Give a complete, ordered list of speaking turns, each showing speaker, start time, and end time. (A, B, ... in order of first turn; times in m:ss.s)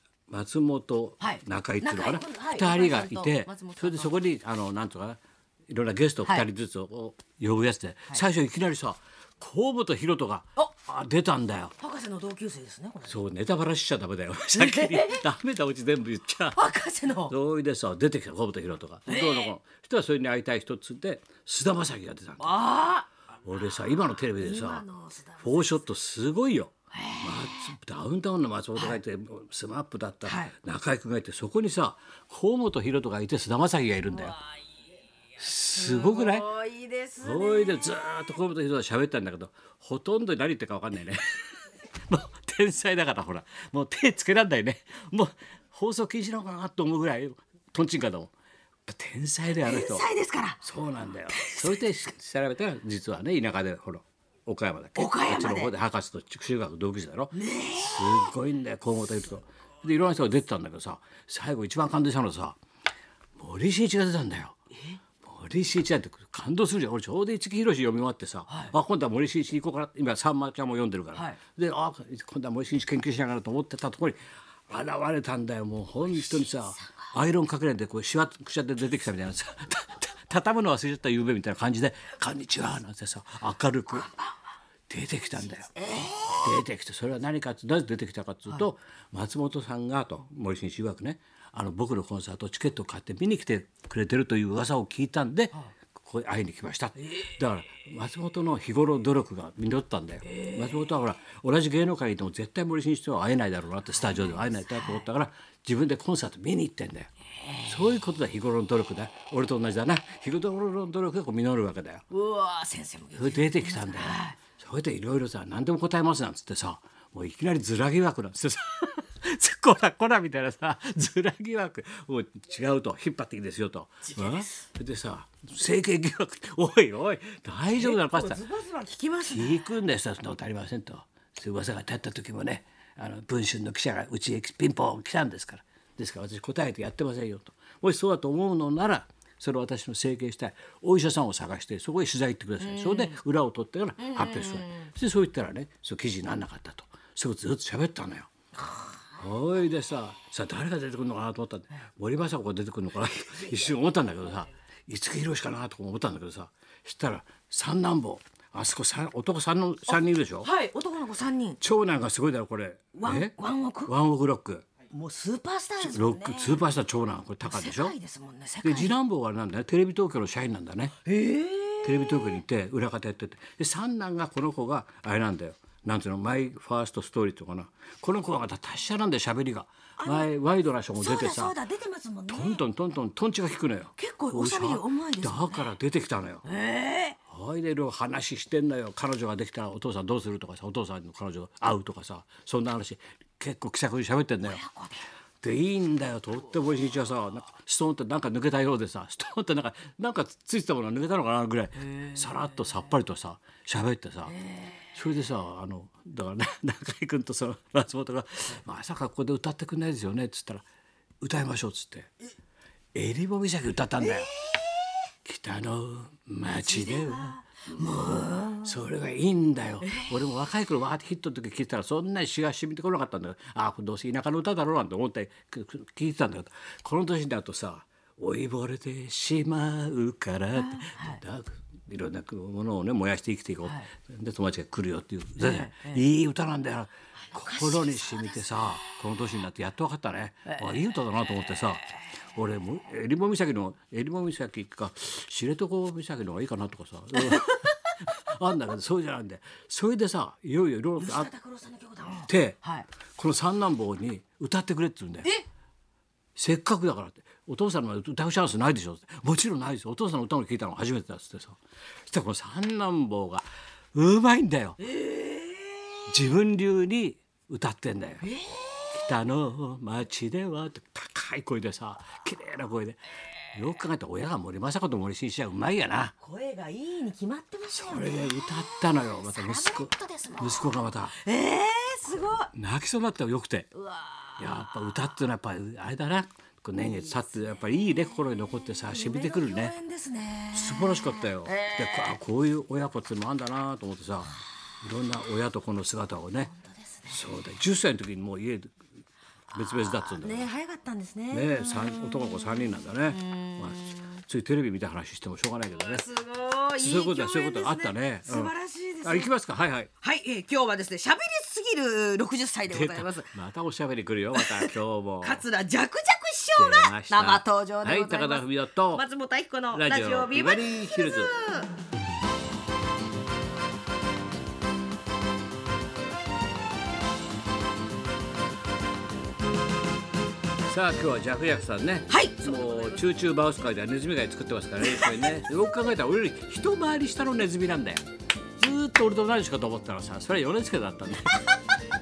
0:00.3-0:11.7 A
0:01.2-0:04.1 B
0:11.8-0:13.2 B
0:13.0-0:16.7 A
0:14.5-0:15.2 B
0:16.5-0:17.3 B
0:17.2-0:22.8 A
0:19.1-0:19.5 B
0:22.4-0:23.1 B
0:23.4-0:24.8 A
0:24.4-0:25.8 B
0:25.4-0:34.4 A
0:26.9-0:27.7 B
0:28.8-0:29.0 B
0:30.2-0:30.5 B
0:35.4-0:36.5 A
0:35.7-0:38.2 B
0:37.2-0:41.4 A
0:42.1-0:48.3 A
0:48.9-0:50.1 A
0:49.6-0:50.6 B
0:50.6-1:02.6 A
0:51.3-0:51.8 B
0:55.0-0:55.7 B
0:57.3-0:58.3 B
1:03.4-1:04.6 A
1:05.2-1:24.1 A
1:08.5-1:08.7 B
1:11.1-1:11.4 B
1:24.0-1:24.3 B
1:24.9-1:25.7 A
1:25.6-1:26.6 B
1:26.3-1:52.0 A
1:40.3-1:40.9 B
1:44.0-1:45.0 B
1:47.4-1:47.8 B
1:52.1-1:54.4 B
1:53.1-2:08.4 A
2:04.2-2:04.5 B
2:07.7-2:09.7 B
2:09.3-2:28.3 A
2:22.6-2:23.2 B
2:24.0-2:24.9 B
2:28.7-2:29.0 B
2:29.2-2:40.5 A
2:33.4-2:33.6 B
2:39.9-2:41.6 B
2:41.6-2:43.3 A
2:42.9-2:43.9 B
2:43.8-2:44.7 A
2:44.9-2:46.7 B
2:45.8-2:47.9 A
2:47.4-2:48.9 B
2:48.6-2:51.0 A
2:51.0-2:52.4 B
2:51.8-3:01.6 A
3:00.0-3:00.3 B
3:00.9-3:02.6 B
3:02.3-3:06.4 A
3:04.0-3:05.7 B
3:06.4-3:07.2 B
3:07.2-3:14.6 A
3:14.4-3:15.1 B
3:15.4-3:30.6 A
3:21.8-3:22.3 B
3:24.3-3:24.9 B
3:31.2-3:32.1 A
3:32.9-3:34.3 A
3:34.0-3:34.9 B
3:35.2-4:11.3 A
3:36.5-3:38.7 B
3:39.8-3:40.1 B
3:50.5-3:51.2 B
3:55.4-3:56.0 B
3:57.3-3:58.9 B
4:07.1-4:07.7 B
4:11.0-4:12.9 B
4:12.2-4:12.6 A
4:13.2-4:15.4 A
4:16.4-4:24.9 A
4:24.8-4:26.0 B
4:26.1-4:28.3 A
4:28.2-4:29.0 B
4:28.9-4:36.1 A
4:36.2-4:42.5 B
4:37.7-4:41.2 A
4:42.5-4:43.7 A
4:43.7-4:44.9 B
4:44.4-4:49.7 A
4:46.8-4:47.6 B
4:48.8-4:52.2 B
4:50.5-4:56.5 A
4:56.4-4:57.2 B
4:57.1-4:58.7 A
4:59.5-5:00.5 A
4:59.6-5:04.2 B
5:01.3-5:06.0 A
5:05.7-5:09.3 B
5:06.8-5:08.5 A
5:09.0-5:09.9 A
5:10.0-5:13.3 B
5:12.7-5:15.4 A
5:14.3-5:21.7 B
5:16.6-5:19.0 A
5:19.7-5:21.3 A
5:30.6-5:38.0 A
5:32.1-5:33.0 B
5:34.8-5:35.3 B
5:38.6-5:41.4 A
5:41.2-5:41.6 B